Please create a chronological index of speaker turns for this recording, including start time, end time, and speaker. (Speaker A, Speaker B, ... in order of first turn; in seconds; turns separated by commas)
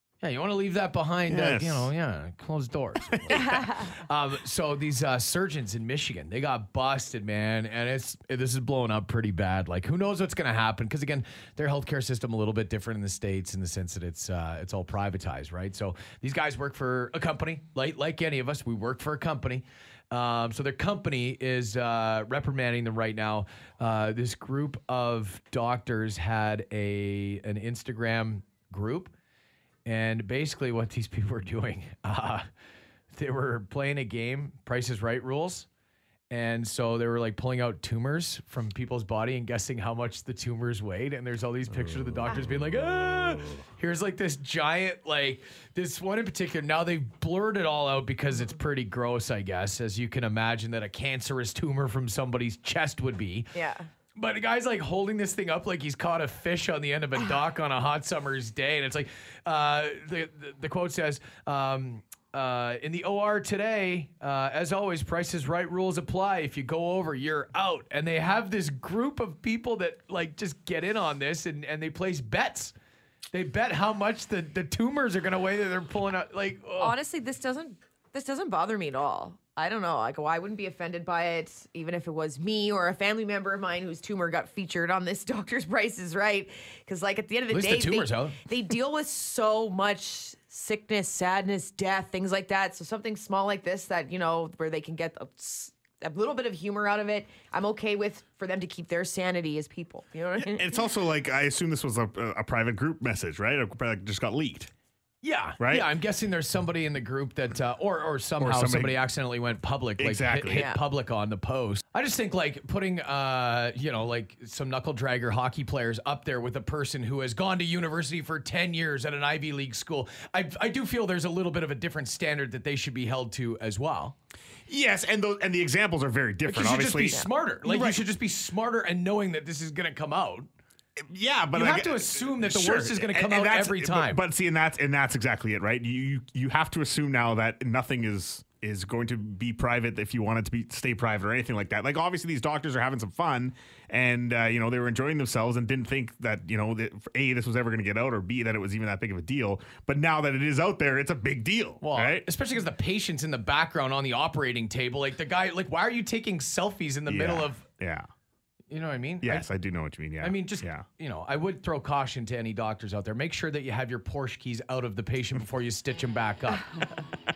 Speaker A: 0.2-29.1, Speaker B: 1.3-1.9, Speaker B: 3.1-3.5, Speaker C: 3.3-3.9, Speaker A: 29.9-32.5, Speaker A: 33.1-35.7, Speaker A: 36.3-53.5, Speaker B: 41.7-43.6, Speaker C: 53.5-53.9, Speaker A: 54.2-72.7, Speaker A: 73.3-76.9, Speaker C: 76.8-100.7, Speaker A: 87.5-88.4, Speaker B: 100.3-104.7, Speaker A: 105.2-124.2, Speaker B: 105.6-105.9, Speaker B: 108.4-109.0, Speaker B: 110.0-110.7, Speaker C: 110.5-110.8, Speaker B: 124.7-128.0, Speaker A: 126.5-130.5, Speaker B: 131.0-152.3, Speaker A: 131.5-134.2, Speaker A: 151.8-157.6, Speaker B: 157.1-158.1, Speaker A: 158.7-159.5, Speaker B: 159.2-160.8, Speaker A: 160.2-166.7